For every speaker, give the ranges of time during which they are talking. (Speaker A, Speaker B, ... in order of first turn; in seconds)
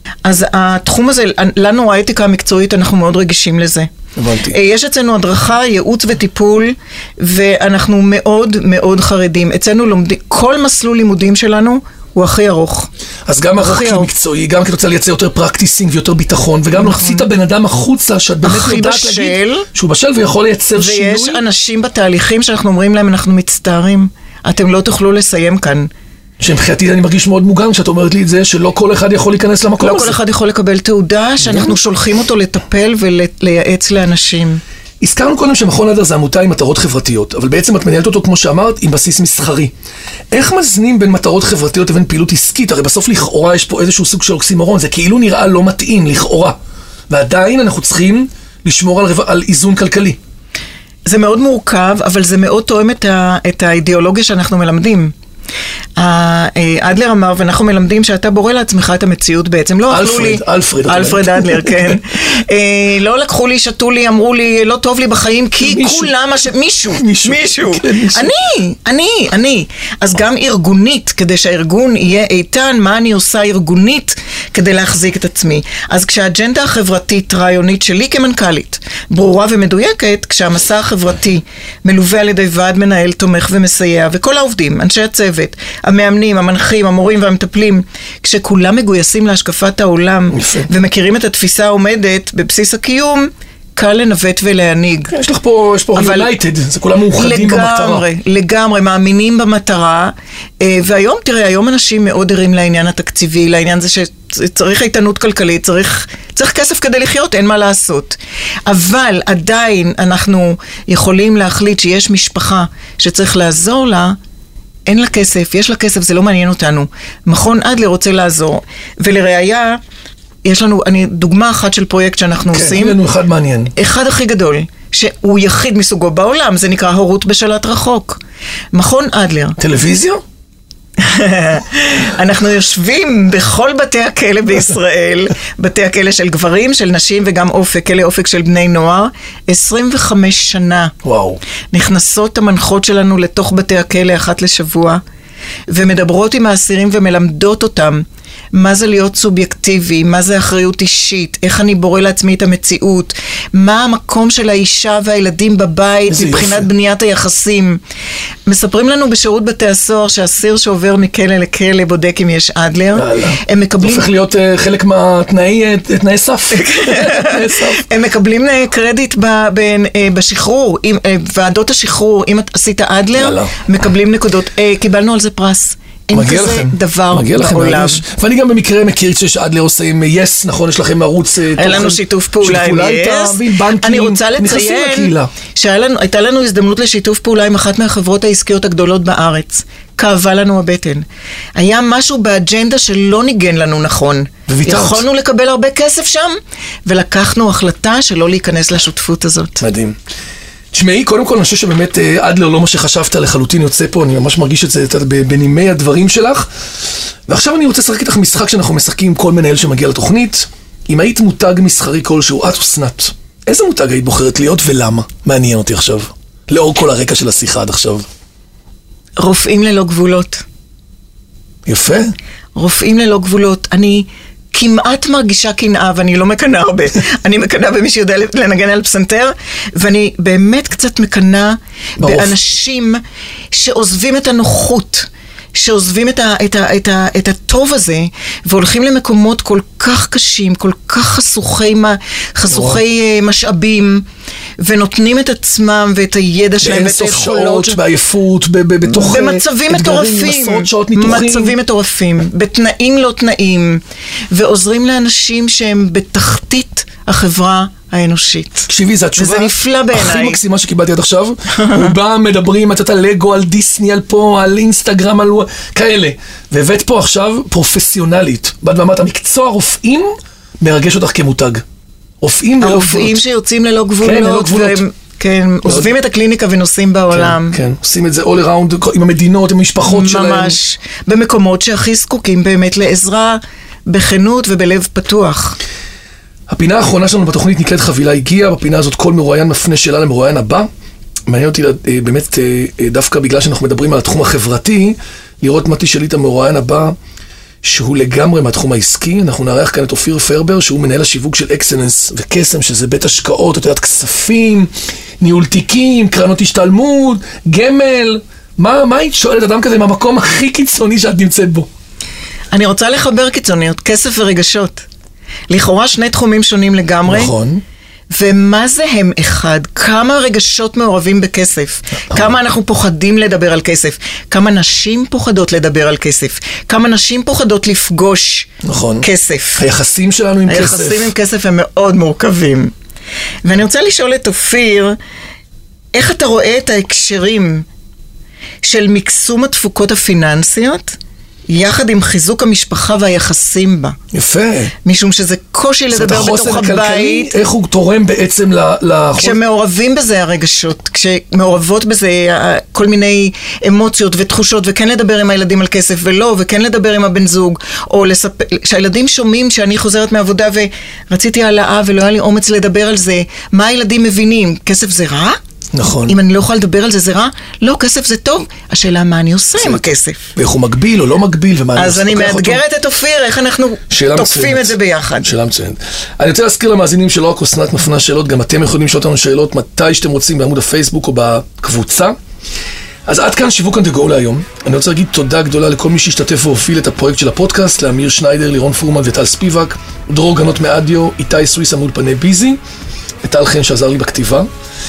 Speaker A: 0.2-3.9, 4.5-12.9, 13.6-14.1, 16.7-17.3, 18.4-19.7, 20.8-25.9, 29.8-34.6, 51.1-55.1, 56.0-95.1, 96.0-96.3, 97.1-114.2, 114.9-119.8, 120.4-123.0, 123.8-128.2, 128.7-129.6, 131.0-140.9, 141.7-145.0, 145.7-157.8, 158.5-164.1, 166.5-178.0, 181.6-191.1, 191.6-199.6, 219.2-220.4, 222.6-233.0, 233.5-244.1, 244.6-247.8, 248.9-260.4, 272.6-277.6, 279.8-285.6, 312.5-314.9, 315.5-317.3, 318.1-328.5, 329.0-329.6, 330.5-332.7, 333.4-335.0, 335.9-337.7, 338.6-341.0, 341.5-344.0, 344.8-347.4, 349.2-365.4, 366.1-370.3, 371.8-375.3
Speaker B: 4.2-4.5, 13.3-21.4, 26.4-30.2, 31.4-31.8, 35.0-39.7, 40.3-46.5, 47.1-50.2, 59.9-62.0, 65.6-66.2, 66.9-68.3, 90.3-90.7, 95.1-98.1, 122.5-123.7, 129.6-130.2, 141.0-141.4, 156.1-156.7, 162.9-167.9, 173.1-173.5, 176.1-185.3, 194.5-195.0, 199.6-199.9, 200.7-206.5, 207.3-218.1, 221.7-222.1, 232.0-232.3, 242.5-242.8, 246.6-251.6, 258.7-271.6, 272.2-273.2, 274.0-274.8, 275.6-275.9, 277.1-280.6, 286.5-290.7, 291.3-297.0, 297.6-304.7, 305.2-311.7, 317.1-317.6, 328.6-329.1, 329.6-331.1, 344.1-344.8, 345.9-349.4, 365.7-366.2, 370.4-372.6, 373.9-382.1, 383.1-392.6, 393.2-394.5